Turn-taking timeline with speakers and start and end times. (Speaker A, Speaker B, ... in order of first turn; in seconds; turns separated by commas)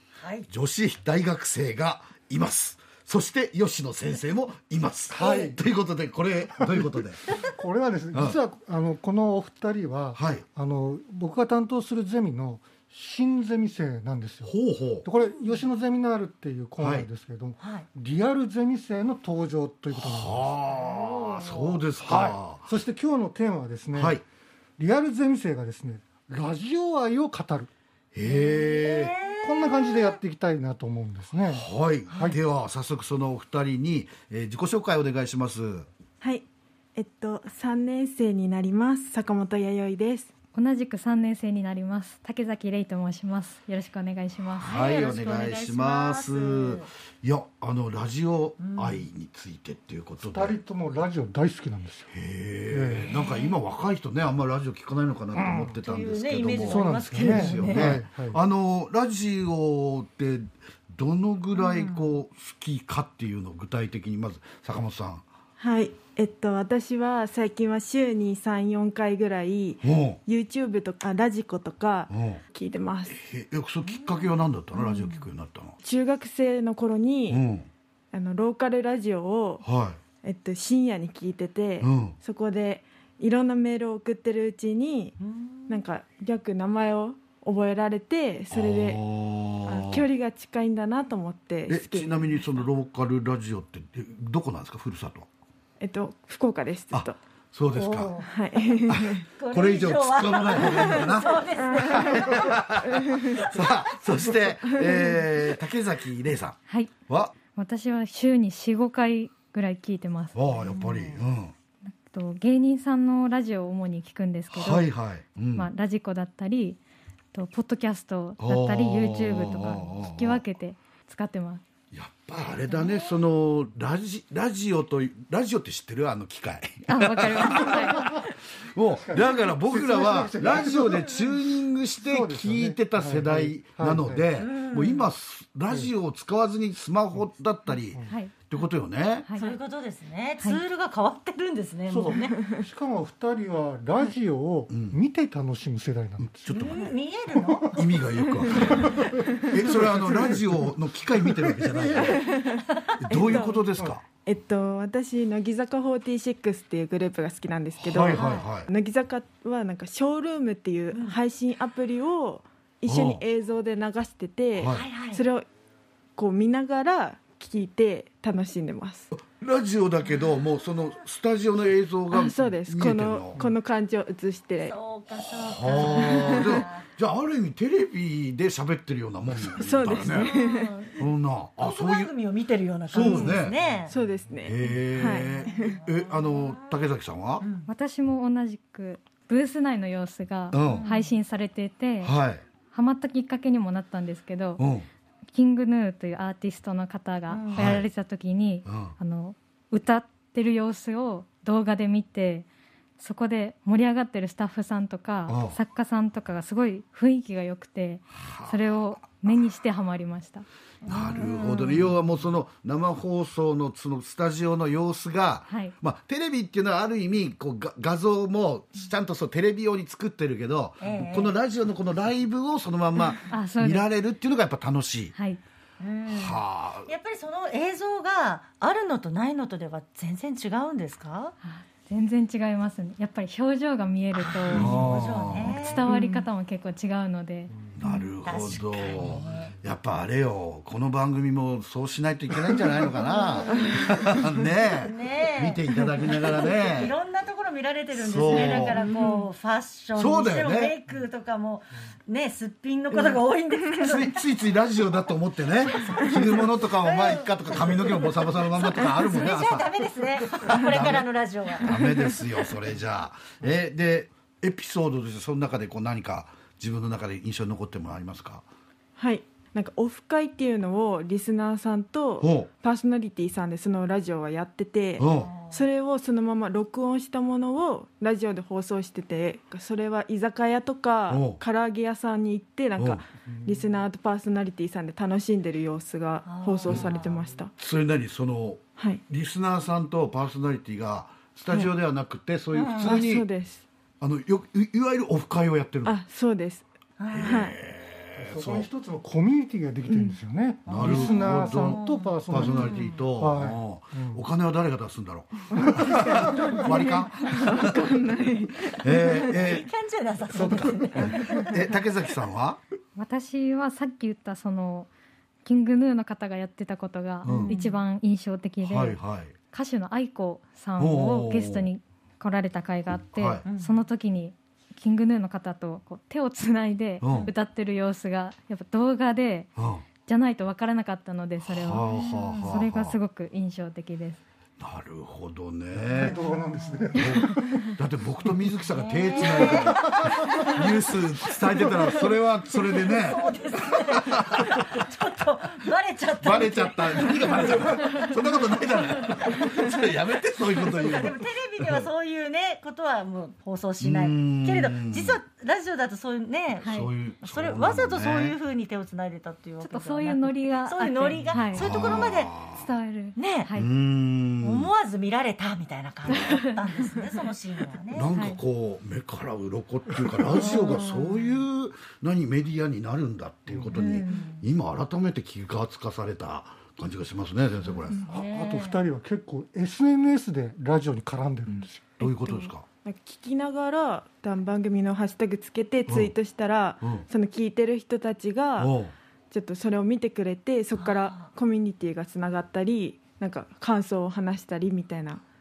Speaker A: 0.2-0.5, Speaker B: 0.5-7.2, Speaker C: 5.1-5.6, Speaker C: 6.5-14.5, Speaker B: 10.2-10.4, Speaker B: 14.4-15.1, Speaker C: 15.0-24.2, Speaker B: 16.8-17.1, Speaker A: 17.6-17.9, Speaker B: 19.9-22.7, Speaker B: 23.9-24.2, Speaker C: 24.8-27.7, Speaker B: 28.1-29.1, Speaker A: 28.2-30.2, Speaker C: 28.9-32.4, Speaker B: 31.5-35.9, Speaker D: 36.2-40.3, Speaker E: 40.5-44.8, Speaker A: 44.6-46.9, Speaker B: 44.6-50.6, Speaker A: 48.6-49.1, Speaker C: 50.2-52.1, Speaker B: 52.1-65.2, Speaker C: 52.7-53.1, Speaker A: 53.1-53.5, Speaker C: 55.3-55.8, Speaker A: 55.8-58.0, Speaker C: 56.5-58.4, Speaker A: 61.6-62.1, Speaker D: 65.6-73.2, Speaker B: 69.8-70.2, Speaker B: 72.1-72.4, Speaker B: 73.1-75.8, Speaker A: 73.8-74.3, Speaker A: 74.8-75.2, Speaker D: 75.8-77.4, Speaker B: 77.3-77.7, Speaker D: 78.1-79.7, Speaker B: 79.6-80.0, Speaker D: 80.2-89.1, Speaker B: 81.8-82.2, Speaker A: 85.3-85.8, Speaker B: 88.5-90.0, Speaker D: 89.7-92.4, Speaker B: 91.7-95.3, Speaker D: 95.8-97.2, Speaker B: 96.9-98.1, Speaker A: 97.8-98.3, Speaker D: 98.2-99.3, Speaker B: 98.9-107.3, Speaker A: 99.4-102.6, Speaker D: 100.6-100.8, Speaker D: 101.7-102.1, Speaker D: 102.8-103.4, Speaker E: 106.7-107.0, Speaker E: 107.5-110.6, Speaker B: 110.3-111.5, Speaker E: 111.9-114.9, Speaker B: 114.5-115.7, Speaker E: 115.5-116.8, Speaker E: 117.3-121.6, Speaker B: 118.4-120.4, Speaker B: 121.9-139.3, Speaker A: 122.7-123.1, Speaker E: 126.9-128.2, Speaker C: 128.9-131.4, Speaker C: 132.0-134.3, Speaker A: 134.4-135.1, Speaker C: 137.7-138.2, Speaker E: 138.1-138.4, Speaker E: 139.2-139.6, Speaker A: 139.3-142.4, Speaker C: 141.9-146.6, Speaker B: 144.7-145.0, Speaker B: 146.2-146.9, Speaker A: 146.5-147.9, Speaker C: 147.5-147.8, Speaker B: 147.8-152.3, Speaker C: 148.5-150.6, Speaker D: 148.6-148.9, Speaker C: 151.3-152.2, Speaker D: 151.9-153.7, Speaker B: 153.0-154.1, Speaker C: 153.2-153.9, Speaker D: 154.2-165.5, Speaker B: 157.8-158.7, Speaker A: 158.1-158.4, Speaker B: 162.9-163.2, Speaker B: 164.6-164.8, Speaker A: 164.6-165.2, Speaker D: 166.2-169.1, Speaker B: 169.1-173.4, Speaker D: 172.1-174.8, Speaker A: 174.6-176.8, Speaker B: 175.4-180.3, Speaker D: 175.8-176.4, Speaker D: 179.6-180.7, Speaker A: 180.1-181.0, Speaker B: 181.0-182.1, Speaker A: 181.6-183.9, Speaker B: 182.9-183.6, Speaker D: 183.0-183.3, Speaker D: 183.9-185.8, Speaker B: 184.4-187.4, Speaker A: 185.1-186.6, Speaker A: 187.4-187.7, Speaker E: 187.7-192.2, Speaker B: 190.5-190.9, Speaker A: 190.6-191.1, Speaker B: 192.0-192.4, Speaker E: 192.7-194.6, Speaker B: 194.6-194.9, Speaker E: 195.3-202.5, Speaker A: 197.3-197.8, Speaker B: 197.5-197.9, Speaker B: 198.7-199.0, Speaker E: 203.0-210.4, Speaker B: 205.3-205.6, Speaker B: 208.2-208.6, Speaker A: 210.8-211.9, Speaker B: 210.9-225.1, Speaker E: 215.5-215.8, Speaker A: 220.8-221.4, Speaker E: 223.3-223.9, Speaker E: 225.1-225.4, Speaker A: 225.8-231.3, Speaker B: 226.1-226.9, Speaker E: 231.4-234.7, Speaker A: 234.1-235.9, Speaker B: 234.5-235.6, Speaker E: 235.3-237.5, Speaker D: 235.9-236.2, Speaker B: 237.7-246.9, Speaker A: 238.2-239.5, Speaker A: 244.8-254.2, Speaker B: 247.9-248.8, Speaker D: 248.9-249.2, Speaker B: 249.9-250.8, Speaker B: 253.8-259.7, Speaker A: 255.8-261.7, Speaker B: 260.2-268.4, Speaker D: 269.0-287.5, Speaker B: 272.2-272.5, Speaker B: 275.0-275.3, Speaker A: 275.1-275.6, Speaker B: 281.1-281.4, Speaker B: 282.8-283.0, Speaker A: 286.2-287.1, Speaker B: 287.6-293.3, Speaker D: 288.8-289.0, Speaker A: 292.5-293.0, Speaker D: 292.7-293.6, Speaker B: 294.0-296.0, Speaker D: 295.9-296.7, Speaker A: 297.0-297.5, Speaker B: 297.1-298.7, Speaker D: 297.2-297.6, Speaker C: 298.2-304.2, Speaker D: 299.9-300.2, Speaker B: 300.7-307.8, Speaker A: 300.7-303.0, Speaker C: 305.6-306.6, Speaker D: 305.6-309.4, Speaker B: 308.8-309.7, Speaker A: 309.2-310.9, Speaker C: 310.3-311.3, Speaker B: 310.3-312.6, Speaker D: 311.1-311.4, Speaker E: 313.0-314.9, Speaker E: 315.4-334.2, Speaker B: 317.2-317.6, Speaker A: 317.3-317.7, Speaker B: 318.6-319.4, Speaker B: 320.8-321.7, Speaker B: 323.1-323.4, Speaker A: 323.4-323.8, Speaker B: 327.0-327.3, Speaker A: 327.1-327.3, Speaker B: 329.6-329.9, Speaker B: 331.5-333.0, Speaker B: 334.6-336.2, Speaker C: 335.7-337.7, Speaker A: 336.1-336.8, Speaker B: 336.9-343.2, Speaker A: 338.7-340.6, Speaker A: 342.7-347.7, Speaker B: 344.2-344.5, Speaker B: 346.2-351.9, Speaker A: 349.2-349.9, Speaker A: 350.5-362.3, Speaker B: 353.8-355.2, Speaker E: 356.6-356.9, Speaker B: 356.7-358.4, Speaker E: 359.6-363.7, Speaker B: 361.5-362.6, Speaker A: 363.2-363.5, Speaker B: 363.6-364.7, Speaker A: 364.4-368.1, Speaker B: 367.9-378.1, Speaker A: 370.5-371.2, Speaker C: 373.5-373.7, Speaker A: 373.7-374.4, Speaker A: 377.9-378.9, Speaker C: 378.1-382.1, Speaker B: 382.0-382.6, Speaker D: 382.9-388.8, Speaker B: 385.9-386.1, Speaker B: 388.6-388.9, Speaker D: 389.3-395.2, Speaker A: 390.8-391.3